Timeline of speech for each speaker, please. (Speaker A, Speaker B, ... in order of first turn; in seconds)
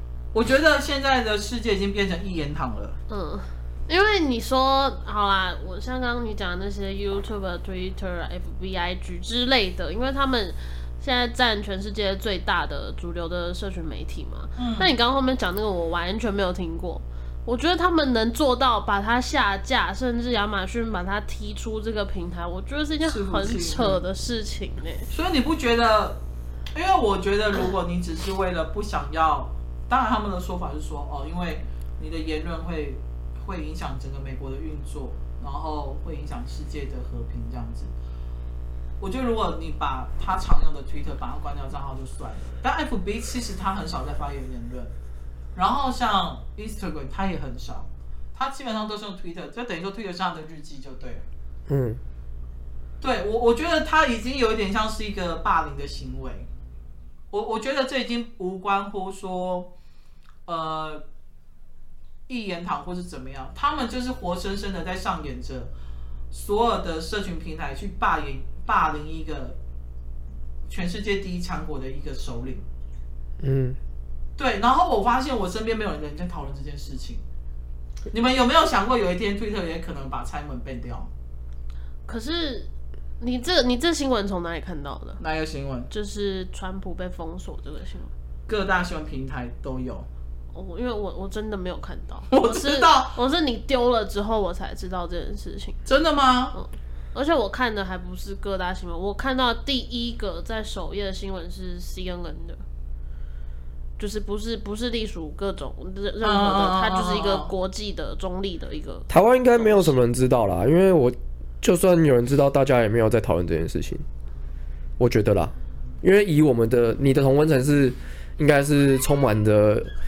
Speaker A: 0.3-3.0, 14.6-14.9, 23.1-24.0, 25.1-26.2, 26.7-37.9, 39.0-44.9, 45.5-51.2, 53.0-56.5, 57.3-59.7, 60.5-61.0, 62.3-65.7, 66.3-69.6, 70.7-72.6, 74.4-77.2, 78.1-81.1, 85.2-85.9, 88.5-90.1, 92.3-93.2, 95.8-96.5, 106.2-107.5
Speaker B: 3.1-25.1, 82.1-85.2, 85.9-88.1, 90.5-95.8, 96.5-102.6, 104.0-109.9
Speaker C: 51.7-52.0, 73.4-73.8, 109.1-114.0, 115.0-119.9